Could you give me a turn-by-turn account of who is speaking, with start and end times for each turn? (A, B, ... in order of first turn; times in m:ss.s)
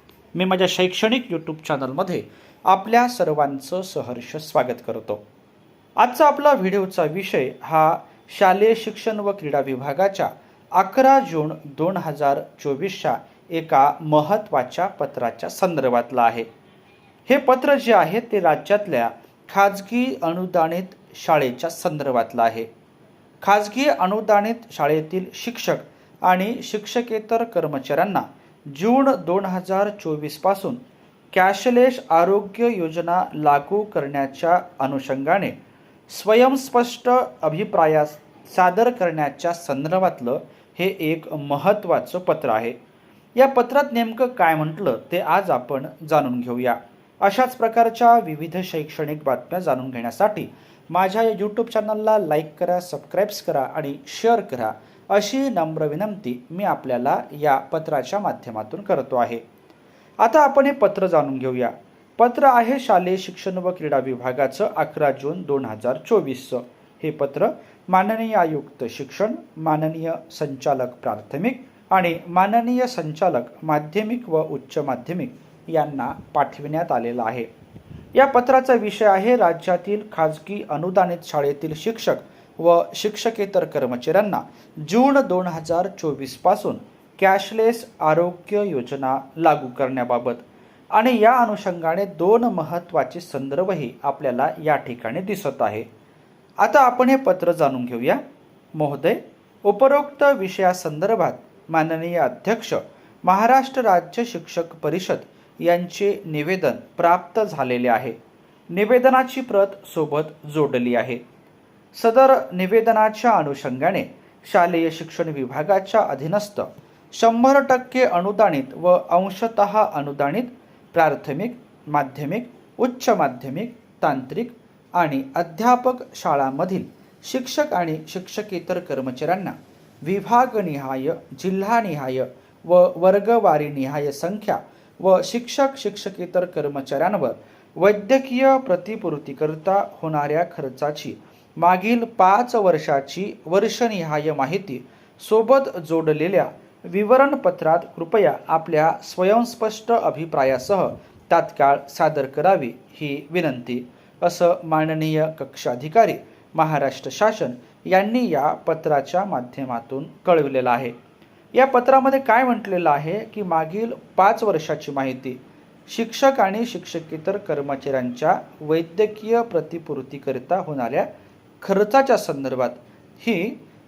0:00.3-0:05.2 A
0:06.0-0:16.5 A
0:17.2-0:22.7 A
0:23.4-0:30.8 A
0:31.3-0:35.6 A
0:36.1-0:42.8 A
0:43.4-0:59.4 A
1:00.2-1:17.5 A
1:18.1-1:35.9 A
1:36.6-1:38.2 A
1:38.7-1:48.2 A
1:48.7-1:51.2 A
1:51.9-2:40.9 A
2:41.5-2:51.1 A
2:51.6-2:53.6 A